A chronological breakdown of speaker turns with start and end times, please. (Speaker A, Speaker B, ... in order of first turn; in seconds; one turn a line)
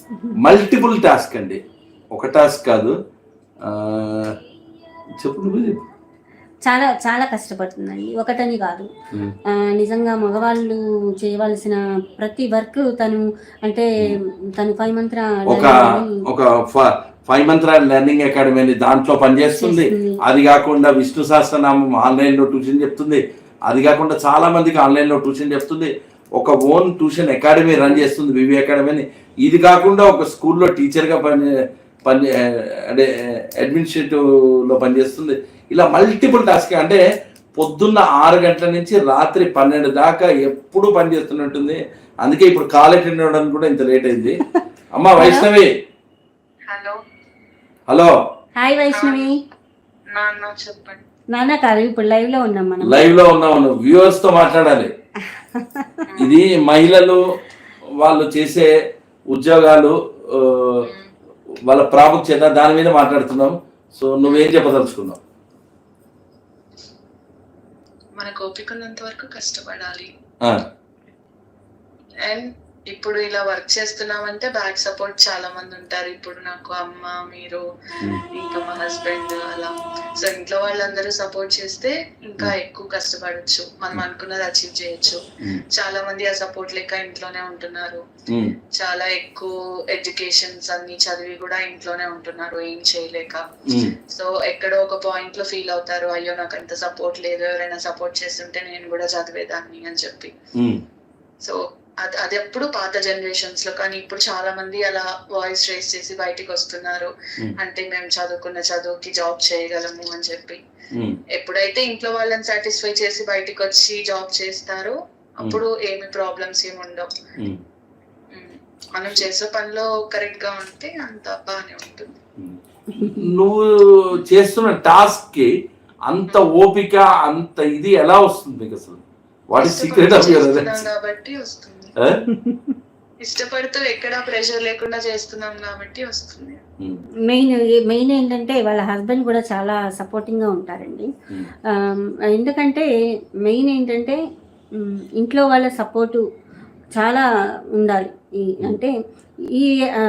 Speaker A: 0.4-1.6
Speaker A: 2.1-3.0
Speaker A: 3.7-4.3
Speaker A: 5.2-5.8
Speaker B: 6.7-8.9
Speaker B: 9.6-13.8
Speaker B: 14.6-16.1
Speaker A: 15.5-31.6
Speaker B: 19.6-20.2
Speaker B: 27.8-28.1
Speaker A: 32.1-37.0
Speaker A: 37.6-44.4
Speaker A: 45.0-45.7
Speaker B: 45.2-45.5
Speaker C: 46.7-47.0
Speaker B: 48.6-49.4
Speaker C: 48.9-49.3
Speaker C: 50.1-51.0
Speaker B: 51.3-53.1
Speaker A: 52.8-54.9
Speaker B: 55.5-56.1
Speaker C: 56.1-56.4
Speaker A: 56.2-57.2
Speaker A: 58.0-58.7
Speaker A: 59.3-60.9
Speaker C: 60.8-61.1
Speaker A: 61.7-65.2
Speaker C: 64.2-64.5
Speaker C: 68.2-70.1
Speaker C: 72.3-77.6
Speaker C: 78.3-85.2
Speaker C: 85.7-88.0
Speaker A: 88.3-88.5
Speaker C: 88.8-93.5
Speaker A: 93.7-94.0
Speaker C: 94.1-100.3
Speaker A: 100.6-100.8
Speaker C: 101.4-110.6
Speaker C: 111.4-117.1
Speaker C: 118.3-122.2
Speaker A: 122.4-125.5
Speaker B: 122.9-123.3
Speaker A: 126.1-130.9
Speaker C: 129.6-131.9
Speaker B: 132.4-132.7
Speaker C: 133.2-136.6
Speaker B: 137.3-141.1
Speaker B: 141.8-142.9
Speaker B: 143.5-144.2
Speaker B: 144.8-146.2
Speaker B: 147.0-147.2
Speaker B: 147.8-148.9